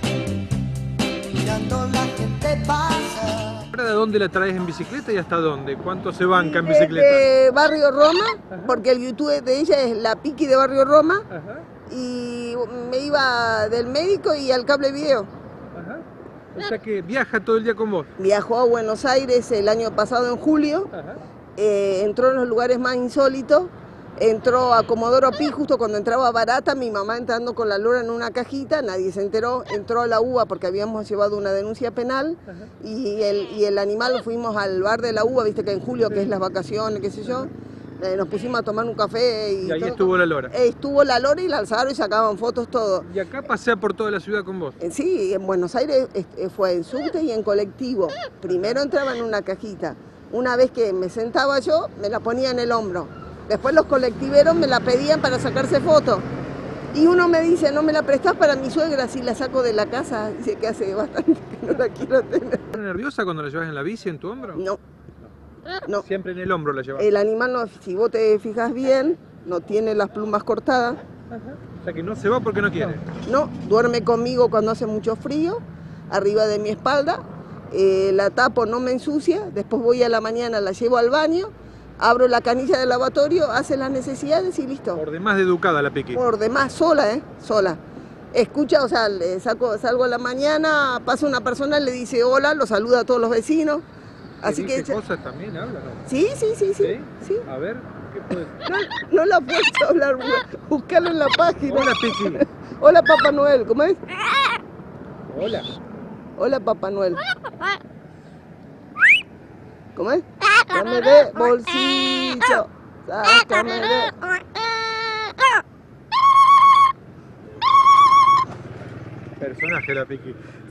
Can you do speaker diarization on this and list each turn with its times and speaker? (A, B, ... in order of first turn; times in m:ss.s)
0:01.2-0:03.6 A
0:03.7-0:07.2 B
0:06.3-0:11.2 C
0:11.3-0:11.6 B
0:11.9-0:15.3 C
0:15.7-0:18.1 B
0:18.2-0:20.9 C
0:20.9-0:21.2 B
0:21.6-0:43.0 C
0:39.6-0:40.5 B
0:43.0-0:44.8 B
0:44.8-0:56.3 C
0:48.5-0:48.8 B
0:56.9-1:02.8 C
1:02.7-1:04.6 B
1:05.9-1:07.1 B
1:07.0-1:11.0 C
1:11.4-1:13.0 B
1:13.2-1:25.0 C
1:24.9-1:26.2 B
1:26.1-1:27.8 C
1:28.3-1:33.8 C
1:34.4-1:35.0 C
1:34.4-1:36.0 B
1:36.0-1:37.4 C
1:36.8-1:38.6 B
1:38.6-1:44.0 C
1:41.6-1:42.4 B
1:45.3-1:45.7 B
1:46.4-1:47.2 C
1:50.0-1:54.7 C
1:59.4-2:00.4 B